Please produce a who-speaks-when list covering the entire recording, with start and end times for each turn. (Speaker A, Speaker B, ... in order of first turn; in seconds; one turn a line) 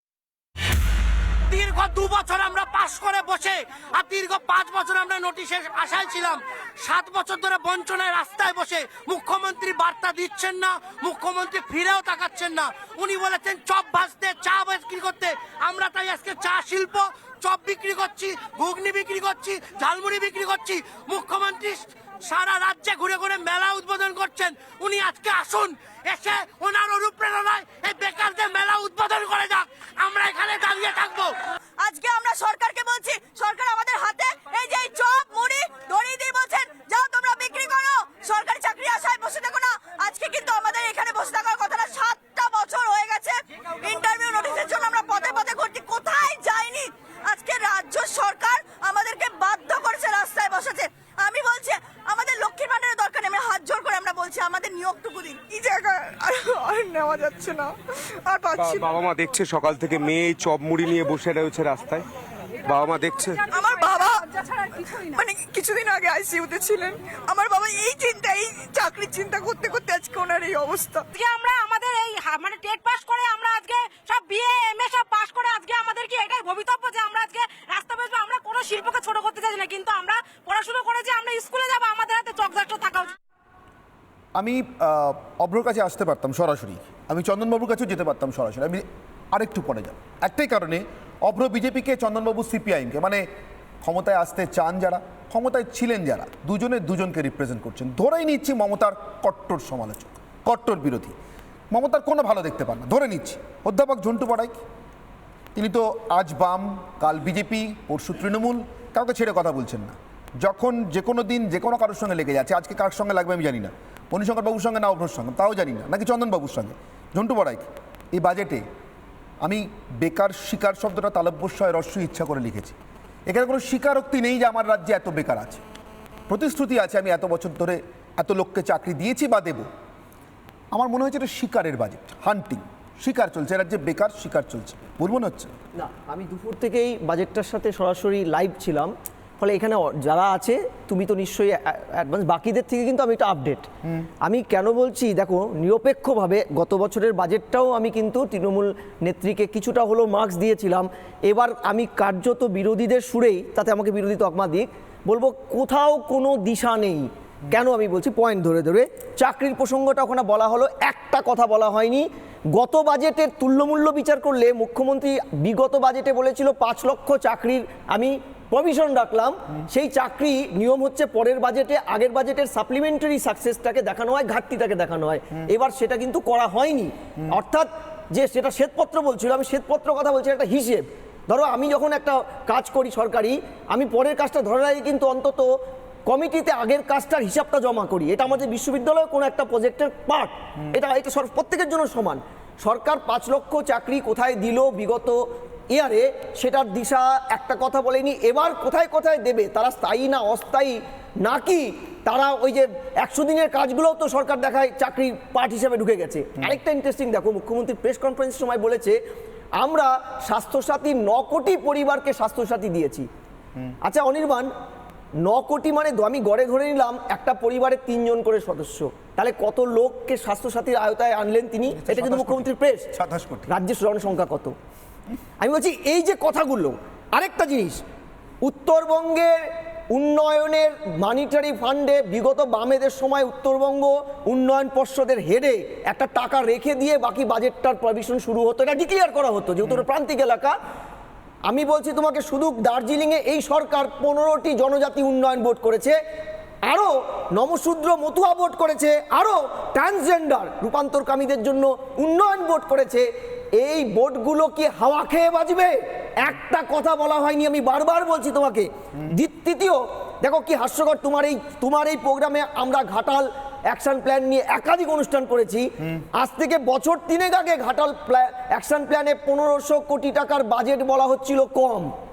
Speaker A: 1.5-31.3
Speaker B: 31.8-58.6
Speaker C: 58.5-58.9
Speaker D: 58.6-62.1
Speaker D: 62.6-63.4
Speaker B: 63.5-70.2
Speaker C: 65.4-66.9
Speaker C: 68.6-71.0
Speaker E: 71.1-83.2
Speaker F: 84.3-93.2
Speaker F: 93.8-101.2
Speaker F: 101.7-104.6
Speaker F: 105.5-118.6
Speaker F: 119.4-122.8
Speaker F: 123.3-125.6
Speaker F: 126.3-129.7
Speaker F: 130.7-135.5
Speaker G: 135.8-143.7
Speaker G: 144.2-185.5
Speaker G: 186.1-195.2
Speaker G: 195.7-209.0
Speaker G: 209.6-213.1
Speaker G: 213.8-214.5
Speaker G: 215.2-222.9
Speaker F: 221.7-223.5
Speaker G: 223.5-224.5
Speaker G: 225.4-227.8
Speaker G: 228.4-229.4
Speaker G: 229.9-240.5
Speaker G: 241.5-246.0
Speaker G: 246.7-253.1
Speaker G: 253.6-271.9